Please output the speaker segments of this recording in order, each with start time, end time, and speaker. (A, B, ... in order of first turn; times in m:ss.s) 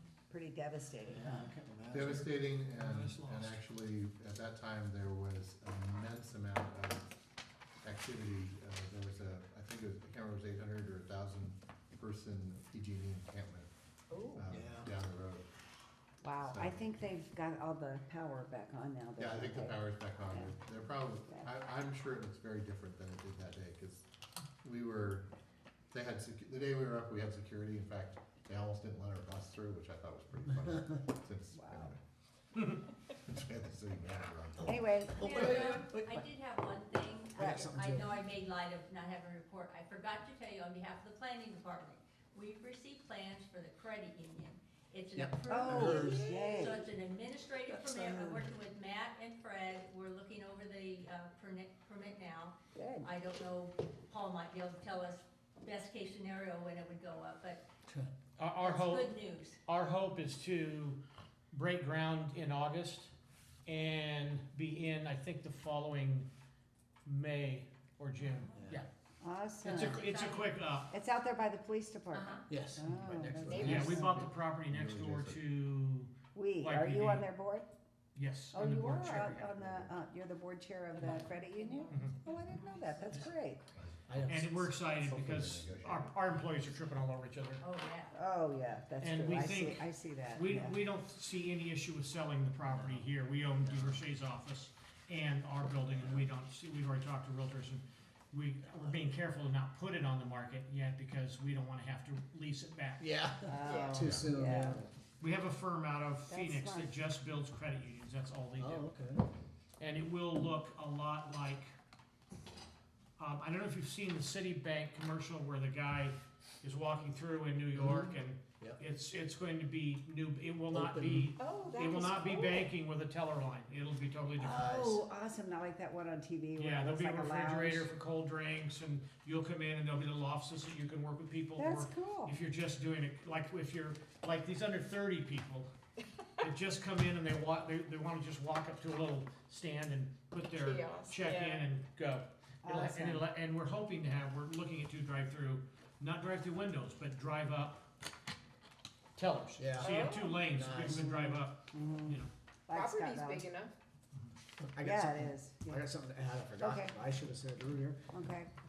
0:00.3-0:01.5 A
0:01.1-0:03.6 B
0:01.9-0:07.1 C
0:07.8-0:13.7 C
0:14.1-0:14.4 D
0:14.3-0:15.5 C
0:14.5-0:14.9 B
0:16.2-0:20.7 A
0:16.4-0:16.8 C
0:19.2-0:24.1 C
0:21.2-0:21.5 A
0:24.6-0:25.3 C
0:25.9-0:32.0 C
0:31.5-0:31.9 A
0:32.6-0:32.8 E
0:33.1-0:34.8 C
0:34.6-0:36.2 B
0:34.6-0:35.5 A
0:35.2-0:57.6 F
0:37.4-0:38.2 B
0:37.4-0:37.7 A
0:45.2-0:46.3 B
0:45.5-0:46.9 A
0:46.1-0:46.6 D
0:47.7-0:48.3 B
0:52.8-0:53.1 A
0:58.4-0:59.1 E
0:58.6-0:59.6 F
0:59.7-1:01.0 E
1:01.5-1:03.1 E
1:03.7-1:06.3 E
1:07.1-1:08.9 E
1:08.6-1:08.8 B
1:09.2-1:10.1 A
1:09.6-1:10.9 E
1:09.7-1:10.6 F
1:10.9-1:14.1 A
1:12.1-1:12.4 F
1:12.5-1:14.3 B
1:13.5-1:14.0 D
1:13.6-1:17.3 E
1:14.7-1:15.4 C
1:16.3-1:17.7 A
1:18.2-1:19.6 E
1:18.5-1:23.6 A
1:21.9-1:22.2 E
1:21.9-1:22.3 D
1:24.1-1:25.2 B
1:24.3-1:27.6 E
1:25.1-1:26.1 C
1:27.6-1:28.2 F
1:28.1-1:30.8 A
1:29.0-1:43.0 E
1:32.7-1:33.1 B
1:33.6-1:34.0 B
1:35.9-1:36.2 B
1:43.0-1:44.9 B
1:43.5-1:44.8 A
1:43.6-1:44.1 D
1:44.0-1:44.3 C
1:45.2-1:48.8 E
1:46.3-1:47.0 A
1:48.6-1:49.3 B
1:49.8-1:51.7 E
1:53.2-2:05.0 E
1:57.8-1:58.8 B
2:00.7-2:01.3 B
2:01.4-2:02.7 D
2:04.4-2:07.9 A
2:06.6-2:15.7 E
2:11.6-2:12.4 A
2:16.4-2:27.9 E
2:20.4-2:21.7 D
2:22.6-2:23.3 A
2:29.2-2:32.3 E
2:29.6-2:31.1 B
2:29.8-2:30.5 D
2:30.9-2:33.5 A
2:32.7-2:33.7 D
2:34.7-2:38.0 B
2:34.8-2:35.8 A
2:36.6-2:37.0 A
2:38.1-2:38.5 A